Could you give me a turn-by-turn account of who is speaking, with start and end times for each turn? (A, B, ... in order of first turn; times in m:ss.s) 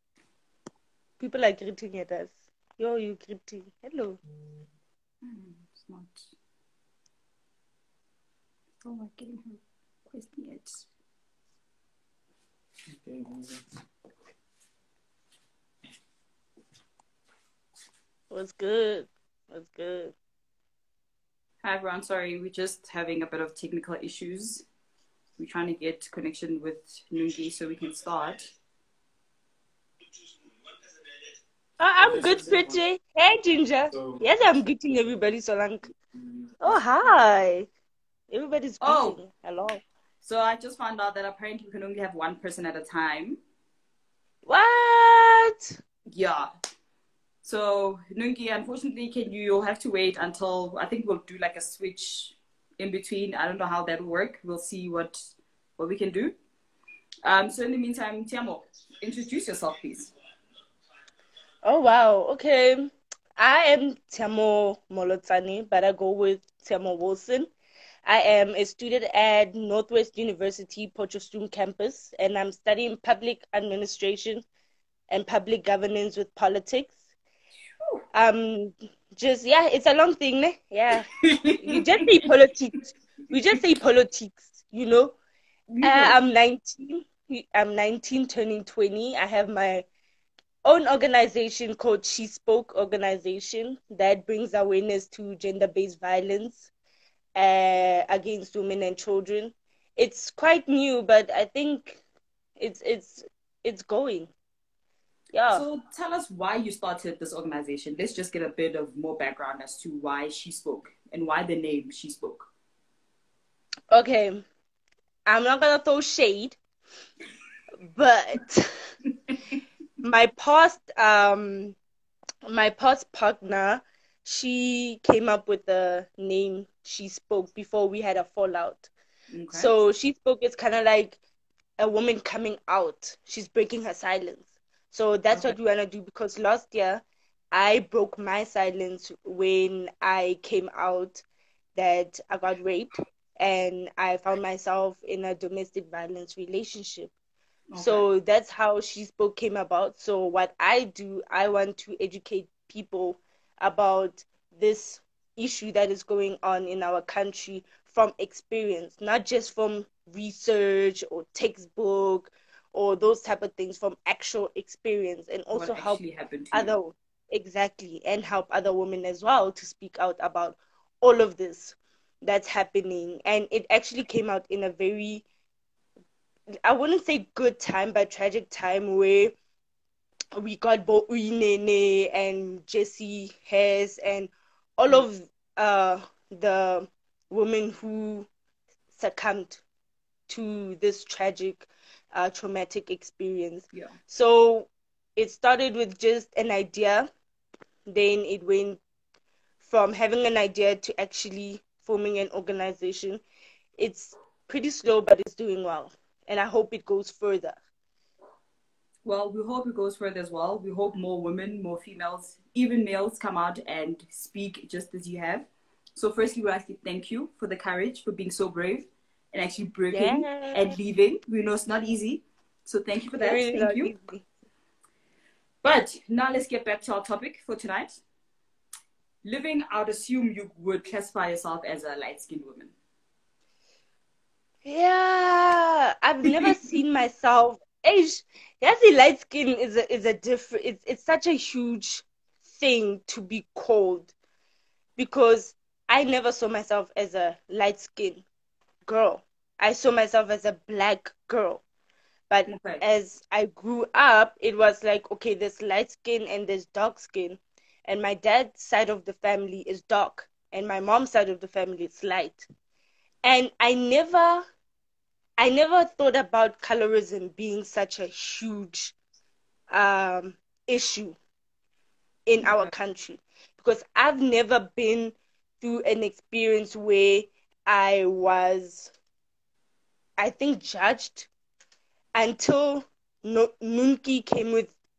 0:01.2-0:04.2 A
0:05.2-0:06.3 B
0:08.8-0:10.8 B
0:12.9-0:13.6 C
0:18.3-0:20.1 A
0:21.6-0:24.6 B
0:25.4-0:28.5 B
0:31.8-0:35.9 A
0:32.0-0:32.8 C
0:33.9-0:34.2 C
0:36.2-0:36.4 C
0:36.6-0:37.7 A
0:38.3-0:39.8 A
0:38.8-0:39.2 B
0:40.2-0:43.4 B
0:44.4-0:45.7 A
0:46.1-0:46.5 B
0:47.4-0:56.4 B
0:57.2-1:00.1 B
1:01.6-1:07.5 A
1:08.0-1:14.4 A
1:15.1-1:17.0 A
1:18.1-1:25.1 A
1:21.2-1:22.2 B
1:25.7-1:26.2 B
1:25.8-1:29.8 A
1:30.6-1:36.6 A
1:37.3-1:42.0 A
1:42.6-1:44.3 A
1:45.3-1:45.6 A
1:45.5-1:52.5 B
1:53.9-1:54.4 A
1:55.3-1:56.6 A
1:57.9-1:58.7 A
2:00.0-2:01.8 A
2:02.5-2:08.9 A
2:09.3-2:09.7 B
2:09.5-2:11.2 A
2:11.8-2:21.2 A
2:21.8-2:27.1 A
2:27.7-2:28.1 B
2:27.8-2:55.2 A
2:45.5-2:46.7 B
2:56.6-2:59.4 A
3:00.4-3:08.3 A
3:08.9-3:09.6 A
3:10.3-3:17.1 A
3:17.9-3:18.8 A
3:19.6-3:23.2 A
3:23.8-3:27.6 A
3:29.0-3:43.9 B
3:39.9-3:40.8 A
3:43.1-3:44.2 A
3:45.6-3:48.0 B
3:49.2-3:52.7 B
3:54.6-4:04.1 A
4:05.0-4:08.2 A
4:08.8-4:11.6 A
4:12.3-4:22.4 A
4:12.5-4:12.8 B
4:23.2-4:24.4 A
4:25.4-4:28.9 A
4:29.7-4:31.2 A
4:32.2-4:38.9 A
4:32.4-4:32.7 B
4:40.2-4:41.3 A
4:42.1-4:44.7 A